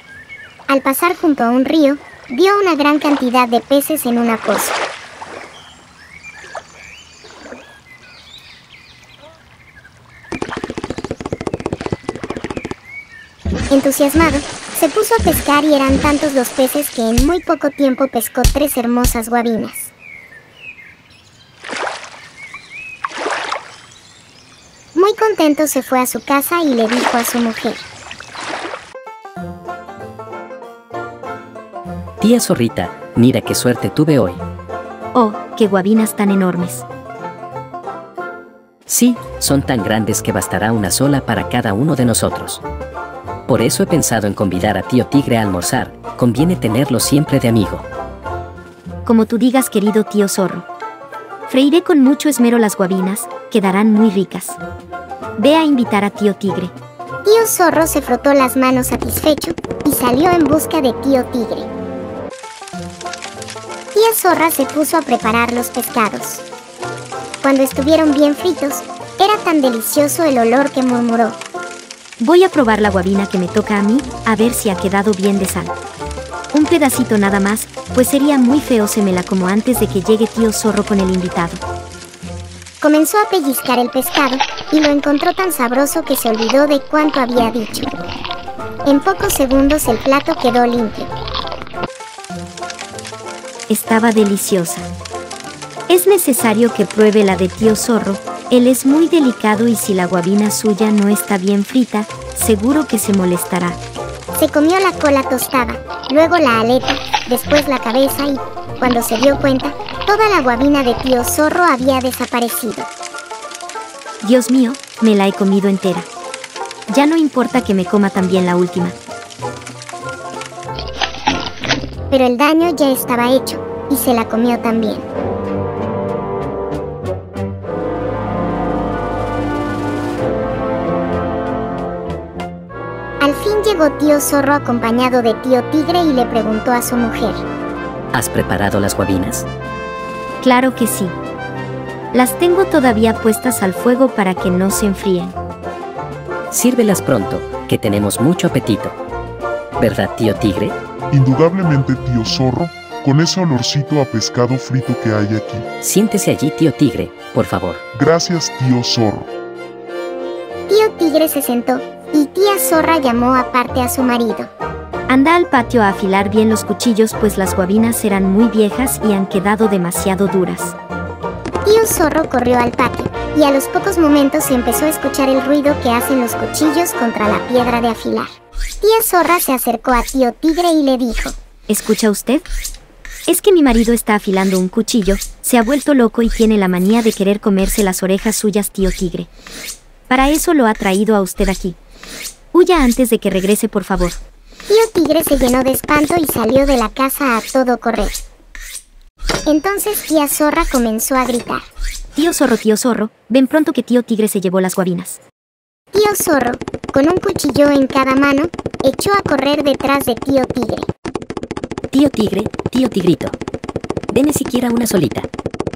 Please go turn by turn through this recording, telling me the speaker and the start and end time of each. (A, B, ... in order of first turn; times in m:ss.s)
0:00.7-0:04.8 A
0:13.7-0:19.9 A
0:24.9-0:27.8 A
0:32.2-0:34.4 B
0:35.1-0:36.8 C
0:38.9-0:42.6 B
0:43.5-0:47.8 B
0:49.0-0:50.7 C
0:51.5-0:54.6 C
0:55.4-0:56.7 C
0:57.2-1:01.7 A
1:03.9-1:06.4 A
1:07.4-1:11.4 A
1:12.2-1:15.7 C
1:16.5-1:21.6 C
1:22.8-1:27.9 A
1:28.8-1:31.1 A
1:33.7-1:34.9 C
1:35.9-1:43.8 C
1:44.3-1:52.9 A
1:54.2-1:56.1 C
1:56.9-1:59.0 C
2:02.1-2:05.0 A
2:13.2-2:17.4 A
2:18.1-2:19.5 B
2:20.4-2:21.1 C
2:22.1-2:25.4 C
2:26.5-2:29.0 B
2:29.8-2:30.8 B
2:31.1-2:35.6 D
2:35.8-2:37.8 B
2:37.9-2:39.3 D
2:40.7-2:44.5 A
2:45.1-2:50.7 C
2:51.6-3:01.4 A
3:01.7-3:02.4 C
3:03.3-3:09.3 C
3:10.1-3:11.8 C
3:12.5-3:14.2 C
3:14.7-3:18.2 A
3:19.4-3:21.6 A
3:22.2-3:25.2 C
3:25.9-3:30.9 A
3:31.9-3:33.4 B
3:34.1-3:35.3 B